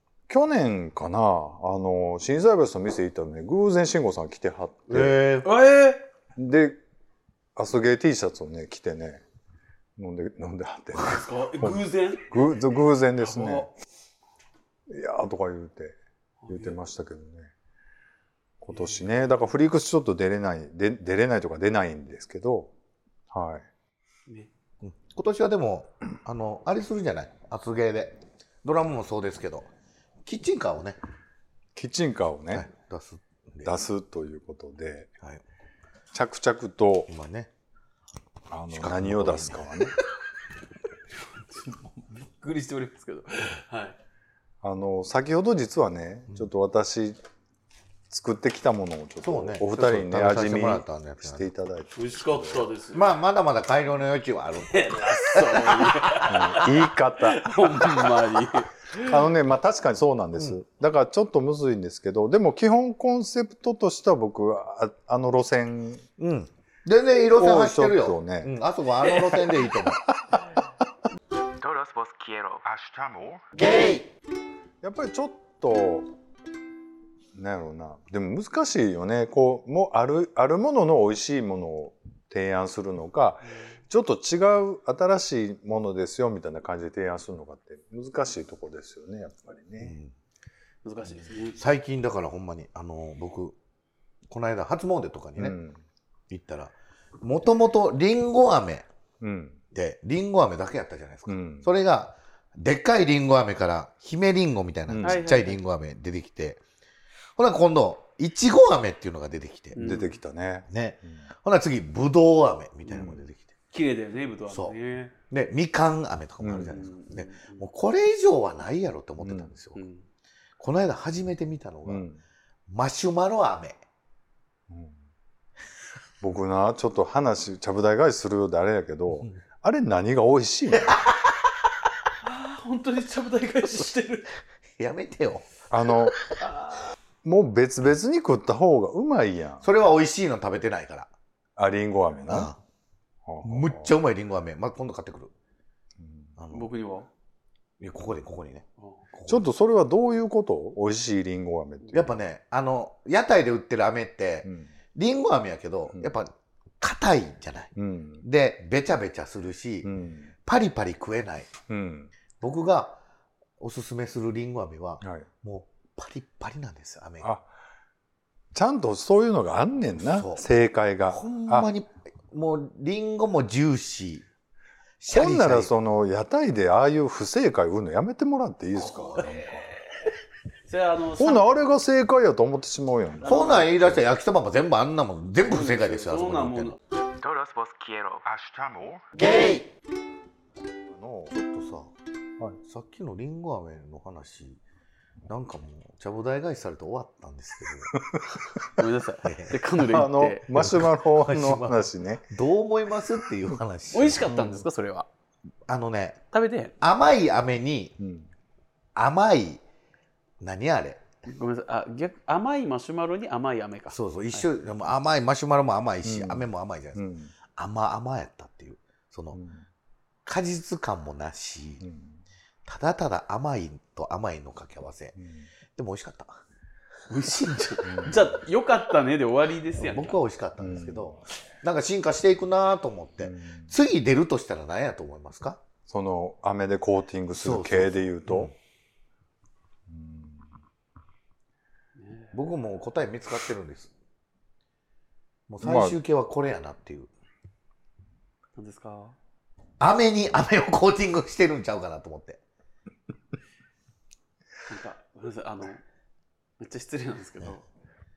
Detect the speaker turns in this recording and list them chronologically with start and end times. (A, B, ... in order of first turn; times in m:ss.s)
0:00.3-0:05.2 A
0:04.9-0:05.5 B
0:05.4-0:06.1 C
0:06.4-0:06.8 A
0:07.6-0:09.2 A
0:10.0-0:13.7 A
0:10.9-0:12.4 C
0:13.2-0:13.7 C
0:14.9-0:16.0 A
0:16.4-0:16.8 C
0:16.5-0:17.5 A
0:18.6-0:22.7 A
0:18.7-0:19.0 C
0:23.3-0:23.7 A
0:24.8-0:29.7 B
0:30.3-0:31.0 B
0:31.8-0:32.7 A
0:32.5-0:33.7 B
0:33.6-0:35.1 A
0:36.1-0:37.1 A
0:37.1-0:37.5 B
0:38.5-0:39.9 A
0:38.7-0:40.1 B
0:41.5-0:44.0 C
0:44.6-0:47.2 A
0:48.1-0:52.7 A
0:49.2-0:51.5 B
0:52.0-0:53.1 C
0:52.9-0:56.2 B
0:54.7-0:59.2 C
0:56.3-0:57.6 A
0:59.0-1:06.0 A
1:06.2-1:10.0 B
1:07.3-1:08.5 A
1:11.6-1:12.6 D
1:12.6-1:13.6 A
1:14.8-1:16.1 A
1:17.3-1:30.0 A
1:29.8-1:30.1 B
1:30.8-1:31.6 C
1:31.6-1:33.6 B
1:34.3-1:35.6 B
1:35.4-1:35.8 A
1:36.3-1:38.9 B
1:39.2-1:39.6 A
1:39.7-1:46.6 B
1:41.3-1:41.7 A
1:44.9-1:45.2 A
1:45.0-1:45.6 C
1:47.4-1:49.8 B
1:49.7-1:50.2 C
1:49.8-1:50.7 A
1:50.7-1:53.5 B
1:52.9-1:53.2 A
1:53.7-1:55.1 C
1:55.3-1:59.8 B
1:56.4-1:56.8 A
1:56.7-1:57.6 C
1:59.2-1:59.5 A
1:59.8-2:00.0 C
2:00.6-2:02.0 B
2:01.9-2:02.2 A
2:02.7-2:03.8 B
2:04.7-2:05.0 A
2:06.2-2:11.1 A
2:10.9-2:11.1 B
2:12.2-2:14.3 C
2:14.8-2:16.4 B
2:15.7-2:16.2 A
2:16.4-2:16.7 C
2:17.2-2:19.7 A
2:19.6-2:21.1 B
2:21.6-2:22.5 A
2:22.3-2:22.6 B
2:23.3-2:23.9 A
2:23.4-2:25.3 B
2:26.0-2:26.3 A
2:26.4-2:26.7 B
2:26.5-2:27.1 C
2:27.8-2:29.4 B
2:29.3-2:32.2 A
2:31.9-2:36.3 B
2:36.8-2:40.0 B
2:37.8-2:38.2 A
2:39.8-2:40.3 A
2:40.5-2:41.5 B
2:41.7-2:42.1 A
2:42.4-2:43.0 B
2:43.6-2:47.3 B
2:47.2-2:47.5 A
2:48.5-2:51.7 A
2:50.0-2:50.4 B
2:51.1-2:54.2 B
2:55.0-2:55.7 B
2:55.1-2:59.7 A
3:00.7-3:01.5 C
3:01.2-3:04.0 A
3:03.2-3:03.7 C
3:03.2-3:06.8 B
3:05.4-3:06.8 C
3:07.2-3:08.2 D
3:08.2-3:09.3 A
3:09.3-3:09.6 B
3:10.9-3:11.4 A
3:11.3-3:11.9 B
3:12.6-3:14.6 B
3:15.3-3:18.0 B
3:18.1-3:18.6 A
3:18.8-3:20.6 C
3:19.2-3:19.6 B
3:19.8-3:22.3 A
3:20.5-3:24.3 B
3:23.9-3:25.1 C
3:24.3-3:24.6 A
3:25.7-3:26.2 B
3:26.3-3:26.8 C
3:26.8-3:28.0 B
3:28.0-3:28.3 A
3:29.0-3:29.6 B
3:30.4-3:31.0 B
3:31.2-3:34.5 C
3:33.9-3:37.0 B
3:36.0-3:37.3 A
3:37.6-3:39.4 B
3:39.3-3:39.6 A
3:40.3-3:41.8 B
3:41.8-3:42.2 A
3:42.7-3:45.2 B
3:45.2-3:45.5 A
3:45.8-3:46.4 B
3:47.1-3:50.2 C
3:47.1-3:48.0 B
3:47.8-3:48.2 A
3:49.8-3:55.6 B
3:50.6-3:51.2 A
3:53.2-3:53.7 A
3:55.9-3:58.5 A
3:57.3-3:58.5 B
3:59.9-4:00.5 A
4:02.0-4:02.3 C
4:02.3-4:03.9 B
4:05.5-4:07.1 B
4:05.6-4:06.0 A
4:08.6-4:09.2 C
4:09.8-4:12.4 B
4:14.7-4:15.8 C
4:16.6-4:17.6 C